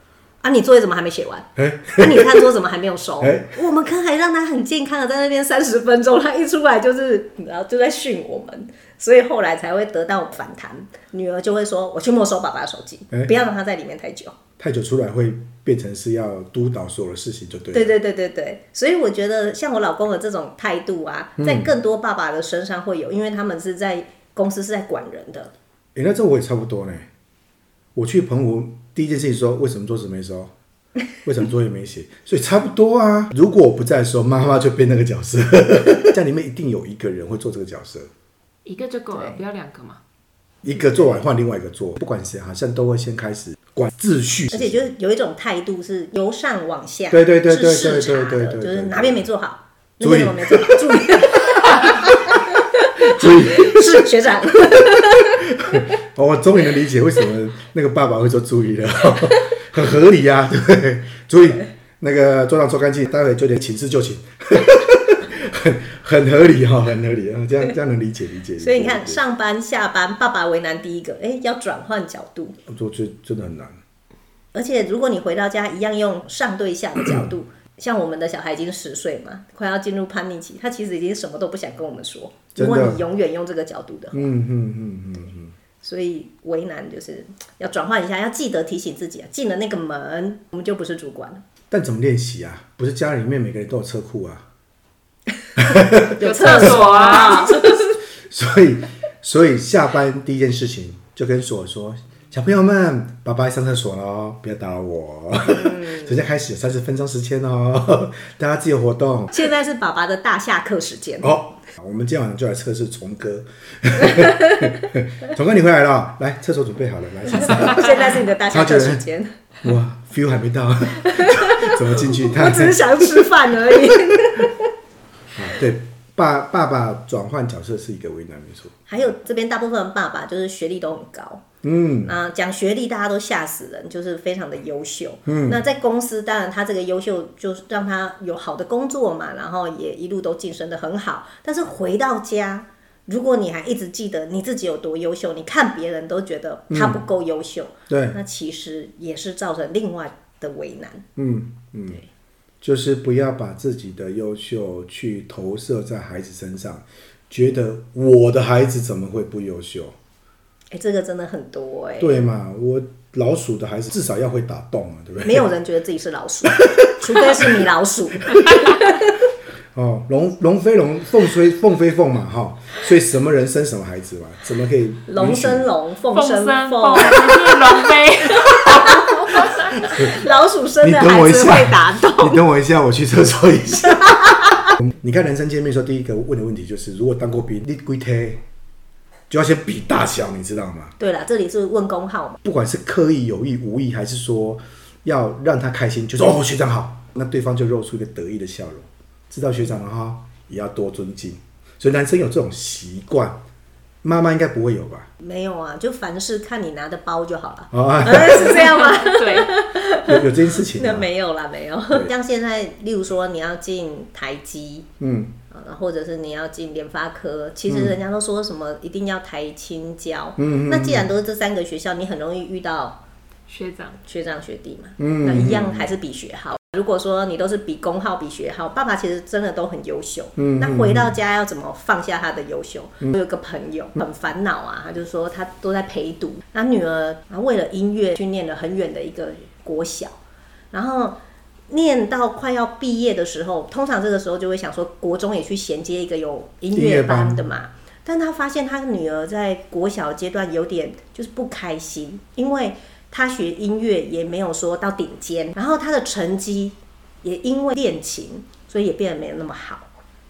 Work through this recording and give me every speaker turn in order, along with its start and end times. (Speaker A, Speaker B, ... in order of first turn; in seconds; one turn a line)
Speaker A: 0.4-14.3
Speaker B: 1.6-2.5
Speaker B: 3.2-3.6
Speaker B: 14.6-17.9
Speaker A: 17.7-25.5
Speaker B: 21.4-21.7
Speaker B: 25.9-27.1
Speaker B: 27.9-30.5
Speaker B: 31.2-38.1
Speaker C: 38.6-40.0
Speaker A: 39.1-39.4
Speaker B: 40.6-44.9
Speaker A: 44.5-55.8
Speaker B: 47.1-49.3
Speaker B: 50.0-52.3
Speaker B: 53.0-54.1
Speaker B: 55.5-69.2
Speaker A: 68.6-72.6
Speaker B: 72.7-73.8
Speaker A: 74.5-84.3
Speaker B: 77.0-77.3
Speaker B: 82.5-83.0
Speaker B: 84.1-85.5
Speaker A: 85.8-91.4
Speaker B: 91.7-94.5
Speaker B: 95.6-96.8
Speaker C: 96.2-97.7
Speaker A: 96.2-97.9
Speaker B: 97.3-109.4
Speaker A: 105.5-106.1
Speaker A: 109.3-111.4
Speaker B: 111.2-119.0
Speaker A: 117.3-119.3
Speaker B: 119.6-123.9
Speaker A: 121.0-124.7
Speaker B: 125.3-128.7
Speaker A: 128.9-131.4
Speaker B: 131.6-132.1
Speaker A: 132.0-151.0
Speaker B: 135.2-135.6
Speaker B: 146.7-147.0
Speaker B: 147.9-148.2
Speaker B: 151.2-152.0
Speaker B: 152.6-159.9
Speaker A: 160.7-162.3
Speaker B: 162.0-165.5
Speaker A: 165.2-169.1
Speaker B: 166.4-167.5
Speaker B: 169.7-175.7
Speaker A: 175.1-177.6
Speaker C: 176.1-179.7
Speaker A: 178.5-182.4
Speaker B: 179.8-180.2
Speaker B: 180.8-188.4
Speaker A: 184.1-184.7
Speaker B: 189.3-190.9
Speaker A: 191.0-192.4
Speaker B: 192.4-203.4
Speaker B: 204.0-205.1
Speaker A: 205.2-214.9
Speaker B: 207.7-208.8
Speaker C: 208.8-209.5
Speaker B: 209.9-211.1
Speaker B: 215.0-215.4
Speaker A: 215.5-223.0
Speaker B: 217.7-218.0
Speaker B: 220.4-221.1
Speaker C: 223.5-224.0
Speaker A: 224.0-240.2
Speaker B: 225.0-225.9
Speaker B: 230.4-231.2
Speaker A: 240.7-259.9
Speaker B: 246.7-247.4